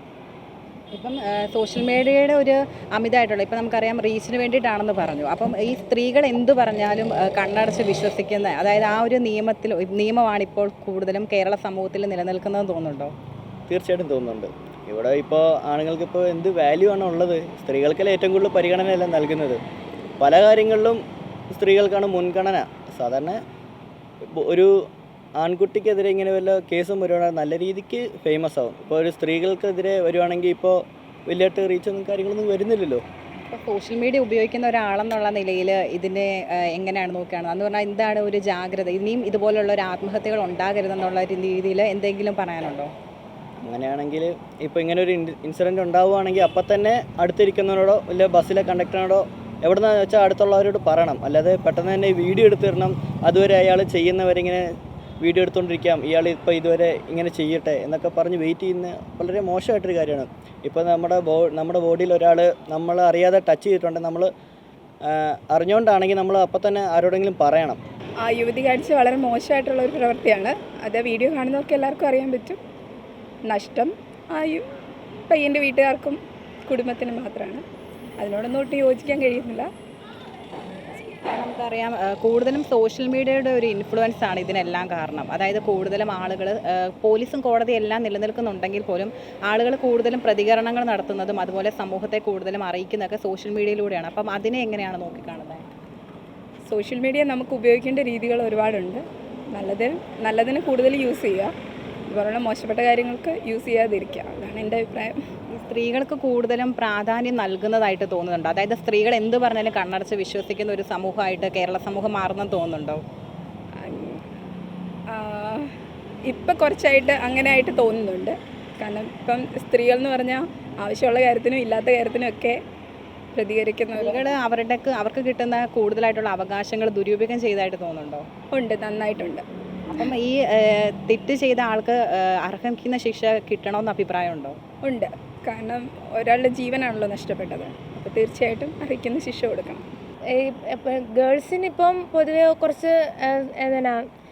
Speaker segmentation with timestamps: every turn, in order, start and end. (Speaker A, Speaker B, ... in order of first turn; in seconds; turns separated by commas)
Speaker A: 0.9-13.1, Speaker B: 13.7-19.6, Speaker B: 20.2-23.4, Speaker B: 24.4-24.7, Speaker B: 25.4-33.0, Speaker A: 33.4-42.9, Speaker B: 43.6-54.6, Speaker B: 55.2-64.3, Speaker B: 65.1-67.8, Speaker C: 68.2-72.6, Speaker C: 73.5-74.7, Speaker C: 75.3-77.6, Speaker C: 78.2-79.7, Speaker A: 81.2-95.6, Speaker C: 96.7-99.0, Speaker C: 99.5-101.5, Speaker C: 102.1-105.2, Speaker A: 105.5-113.0, Speaker C: 113.8-114.2, Speaker C: 115.1-115.7, Speaker C: 116.3-122.6, Speaker C: 123.3-124.2, Speaker A: 123.9-128.2, Speaker C: 128.5-129.4, Speaker A: 129.9-134.6, Speaker C: 134.8-139.8, Speaker D: 140.3-144.0